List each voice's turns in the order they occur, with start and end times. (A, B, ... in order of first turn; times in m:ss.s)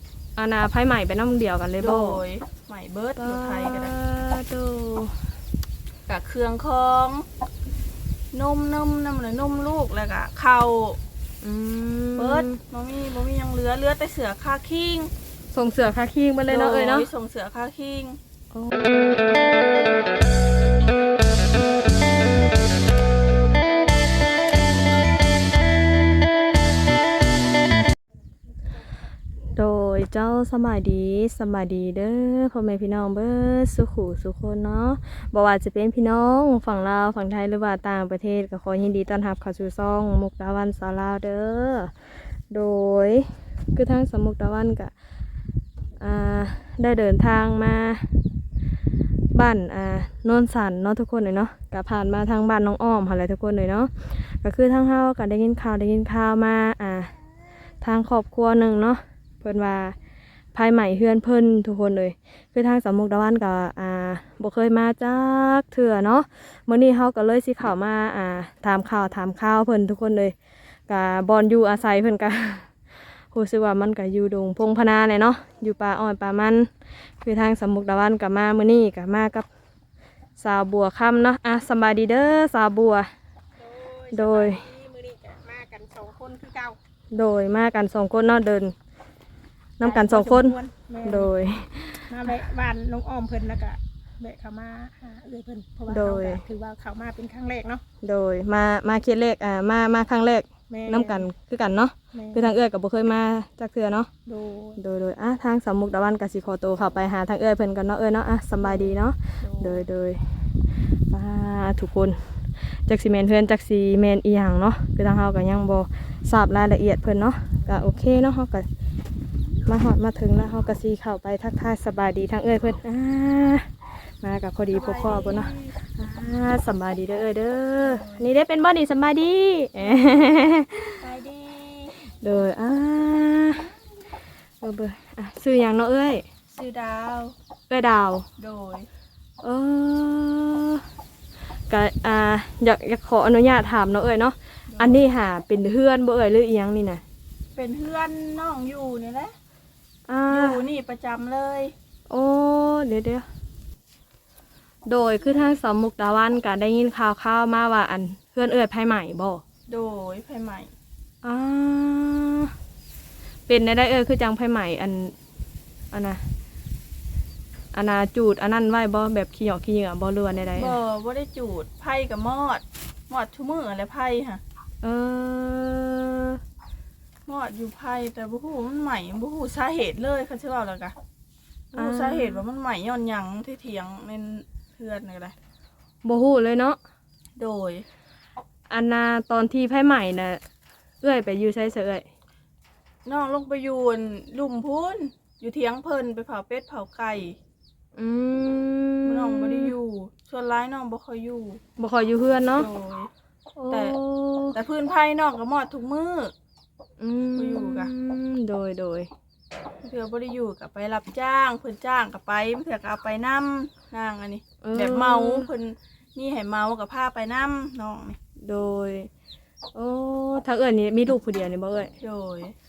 0:00.4-0:02.2 A
0:01.8-0:03.9 B
0:03.2-0:05.3 A
0:06.1-0:07.3 B
0:08.3-0:11.0 B
0:11.4-0:12.6 A
0:12.2-0:15.1 B
0:15.5-0:17.1 A
0:16.5-0:18.2 B
0:18.5-0:19.5 A
0:29.6-0:41.9 A
0:42.5-0:44.9 A
0:46.0-0:48.1 A
0:49.3-0:57.1 A
0:57.8-1:00.0 A
1:00.5-1:10.4 A
1:10.9-1:16.7 A
1:17.2-1:19.5 A
1:20.4-1:23.1 A
1:23.7-1:26.8 C
1:24.1-1:24.6 A
1:27.1-1:28.7 A
1:29.8-1:32.2 A
1:29.8-1:31.3 C
1:32.1-1:37.8 C
1:35.9-1:36.4 A
1:38.0-1:44.1 A
1:40.7-1:41.3 C
1:42.1-1:42.5 C
1:44.3-1:44.8 C
1:44.8-1:50.4 A
1:49.4-1:49.8 B
1:51.1-1:58.7 A
1:59.6-2:11.1 A
2:04.7-2:05.8 B
2:07.8-2:08.2 B
2:11.1-2:11.6 B
2:11.2-2:11.9 C
2:12.1-2:13.7 A
2:14.6-2:16.3 A
2:16.5-2:17.3 B
2:17.7-2:18.3 A
2:18.4-2:18.9 B
2:19.4-2:20.9 A
2:21.7-2:27.0 A
2:24.7-2:25.0 B
2:27.6-2:29.4 B
2:30.1-2:30.6 A
2:30.3-2:31.7 B
2:32.1-2:33.3 A
2:34.9-2:39.4 A
2:39.7-2:40.7 B
2:41.2-2:42.5 A
2:43.5-2:45.1 A
2:45.9-2:46.2 A
2:47.7-2:50.8 A
2:50.6-2:54.4 B
2:54.8-2:56.4 A
2:57.3-3:01.0 B
3:01.7-3:02.4 A
3:01.8-3:05.4 B
3:06.0-3:06.8 A
3:07.4-3:07.9 B
3:08.7-3:10.4 A
3:11.0-3:12.0 A
3:13.1-3:17.4 B
3:18.0-3:19.8 A
3:19.0-3:21.6 B
3:21.8-3:22.7 A
3:22.5-3:23.1 B
3:23.6-3:24.6 A
3:23.7-3:24.0 B
3:24.5-3:26.3 B
3:27.0-3:29.1 A
3:27.3-3:27.9 B
3:29.8-3:38.2 B
3:34.6-3:35.5 A
3:38.4-3:39.1 A
3:39.7-3:41.9 A
3:42.0-3:42.6 B